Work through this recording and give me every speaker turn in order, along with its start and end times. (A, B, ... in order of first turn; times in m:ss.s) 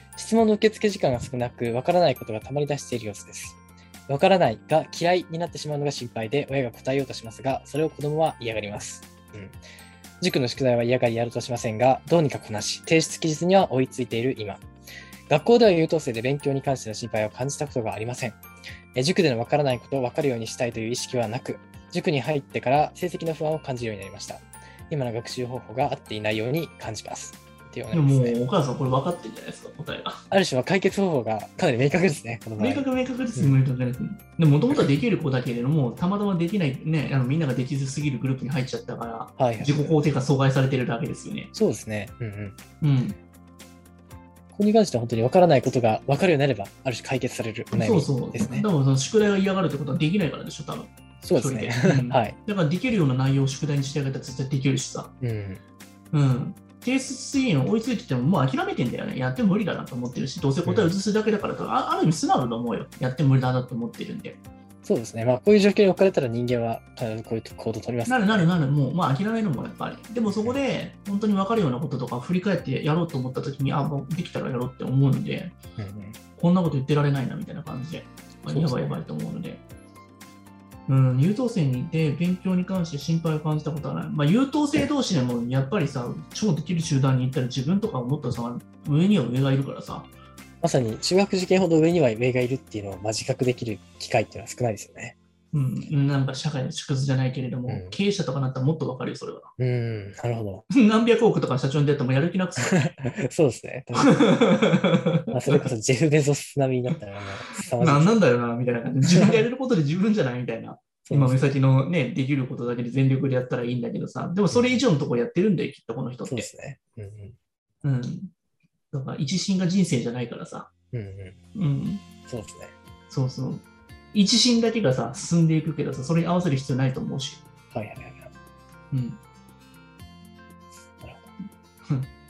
0:00.2-0:09.6 A
0:10.2-0:14.6 A
0:15.3-0:18.4 A
0:18.9-0:28.4 A
0:27.9-0:30.2 B
0:30.3-0:33.6 A
0:32.6-0:41.5 B
0:39.4-0:39.7 A
0:41.5-0:42.6 A
0:42.8-0:43.2 B
0:44.5-0:48.7 A
0:47.7-0:55.1 B
0:51.2-0:52.4 A
0:55.2-0:55.6 A
0:56.1-1:04.4 B
1:00.6-1:00.9 A
1:04.8-1:08.5 A
1:08.1-1:15.6 B
1:10.3-1:10.6 A
1:15.8-1:16.2 A
1:16.4-1:19.6 B
1:18.4-1:19.0 A
1:20.9-1:30.1 B
1:30.6-1:35.2 A
1:35.5-1:39.5 B
1:37.7-1:38.0 A
1:39.6-1:40.6 A
1:40.7-1:42.9 B
1:42.7-1:44.2 A
1:44.0-1:45.7 B
1:45.3-1:48.2 A
1:47.8-1:56.5 B
1:51.1-1:51.5 A
1:54.5-1:54.8 A
1:56.3-1:57.4 A
1:57.8-1:58.3 B
1:58.9-2:00.7 B
2:00.9-2:01.4 A
2:01.5-2:02.0 B
2:02.3-2:02.7 A
2:03.1-2:07.4 B
2:07.7-2:08.3 A
2:08.9-2:09.2 B
2:11.0-2:11.4 A
2:11.4-2:12.1 B